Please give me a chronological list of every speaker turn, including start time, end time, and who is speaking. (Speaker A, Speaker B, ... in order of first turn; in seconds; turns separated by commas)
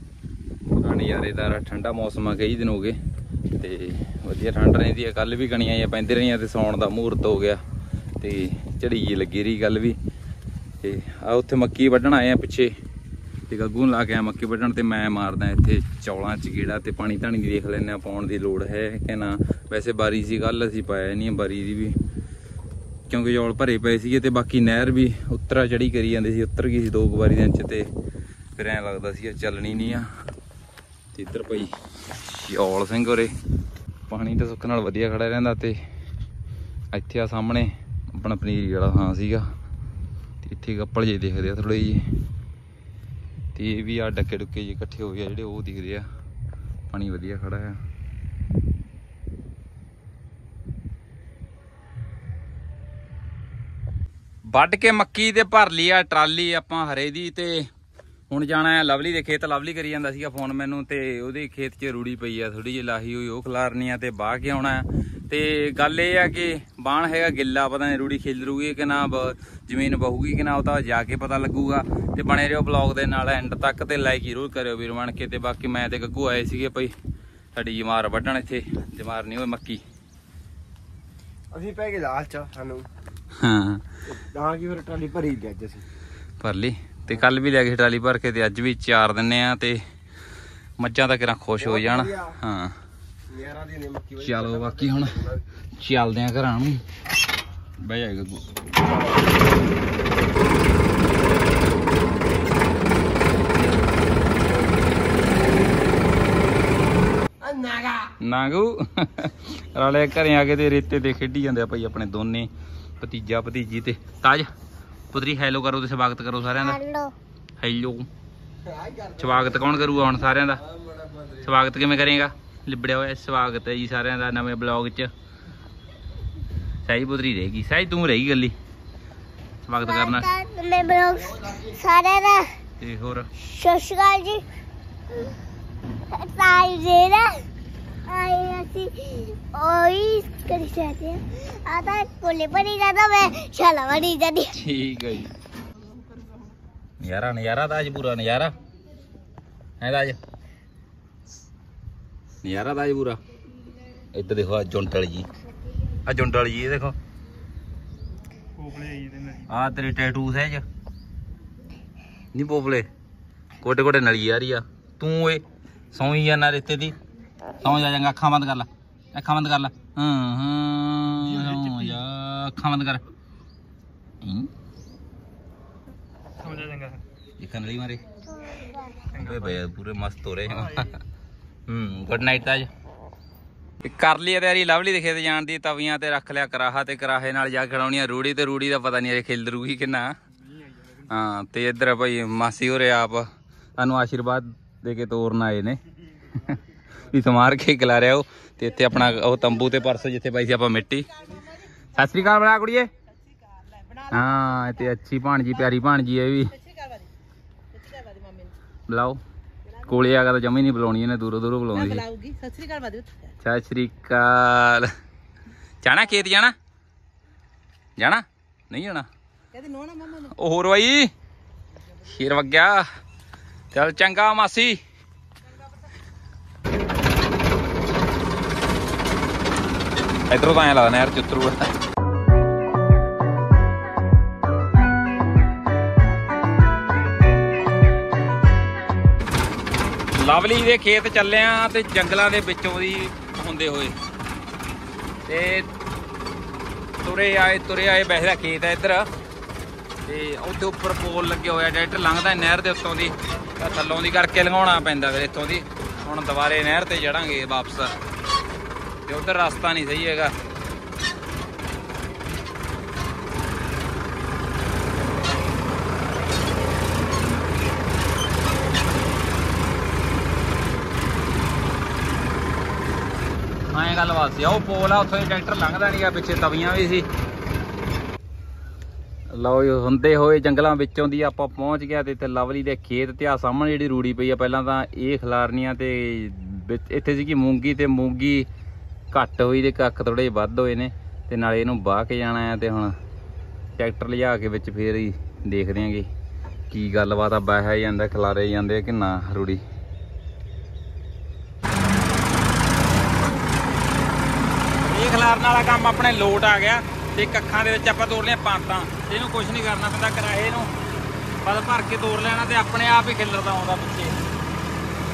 Speaker A: 0.7-3.0, Speaker A: 3.5-7.6, Speaker A: 8.2-10.0, Speaker A: 10.8-12.7, Speaker A: 13.5-22.0, Speaker A: 23.1-27.9, Speaker A: 28.6-30.1, Speaker A: 31.1-31.7, Speaker A: 32.4-33.3, Speaker A: 34.1-35.8, Speaker A: 36.9-39.5, Speaker A: 40.4-42.0, Speaker A: 43.5-46.0, Speaker A: 46.9-47.8, Speaker A: 54.5-57.6, Speaker A: 58.3-76.9, Speaker A: 77.5-79.8, Speaker B: 81.5-82.9, Speaker A: 83.4-83.9, Speaker B: 84.1-85.8, Speaker A: 86.4-89.8, Speaker A: 90.8-92.8, Speaker B: 91.6-92.4, Speaker B: 93.3-95.4, Speaker A: 94.2-95.3, Speaker A: 95.8-96.8, Speaker A: 97.8-98.4, Speaker A: 108.2-114.5, Speaker A: 115.1-116.8, Speaker C: 116.6-117.2, Speaker A: 117.6-118.1, Speaker A: 119.1-120.6, Speaker A: 121.4-125.1, Speaker A: 126.8-128.6, Speaker A: 129.7-130.3, Speaker C: 129.8-132.6, Speaker A: 132.8-133.3, Speaker C: 133.4-134.5, Speaker C: 136.1-137.5, Speaker C: 138.1-144.6, Speaker A: 144.5-145.3, Speaker A: 147.0-148.6, Speaker A: 149.8-150.2, Speaker A: 152.4-153.2, Speaker A: 154.1-155.3, Speaker A: 156.1-157.0, Speaker A: 158.7-160.7, Speaker A: 162.3-162.9, Speaker A: 163.6-167.0, Speaker A: 167.6-173.0, Speaker A: 174.2-174.5, Speaker A: 176.5-178.1, Speaker C: 178.3-179.1, Speaker A: 179.1-181.0, Speaker A: 181.7-182.7, Speaker A: 183.8-190.1, Speaker A: 190.9-193.3, Speaker A: 193.8-195.8, Speaker A: 196.3-201.1, Speaker A: 201.9-202.9, Speaker A: 204.1-206.6, Speaker D: 207.8-208.5, Speaker A: 208.9-209.2, Speaker A: 209.8-212.1, Speaker D: 212.1-213.3, Speaker A: 213.4-214.9, Speaker A: 215.8-216.6, Speaker A: 218.0-219.1, Speaker D: 219.5-220.1, Speaker A: 220.1-221.1, Speaker A: 222.0-222.9, Speaker A: 223.7-224.8, Speaker A: 230.3-231.7, Speaker A: 240.2-244.0, Speaker A: 245.3-245.7, Speaker A: 247.0-249.1, Speaker A: 250.1-258.0, Speaker A: 259.1-260.3, Speaker A: 273.7-277.1, Speaker A: 279.3-288.5, Speaker A: 289.1-292.9, Speaker A: 293.8-296.1, Speaker A: 296.7-299.6, Speaker A: 304.8-310.7, Speaker A: 311.4-314.2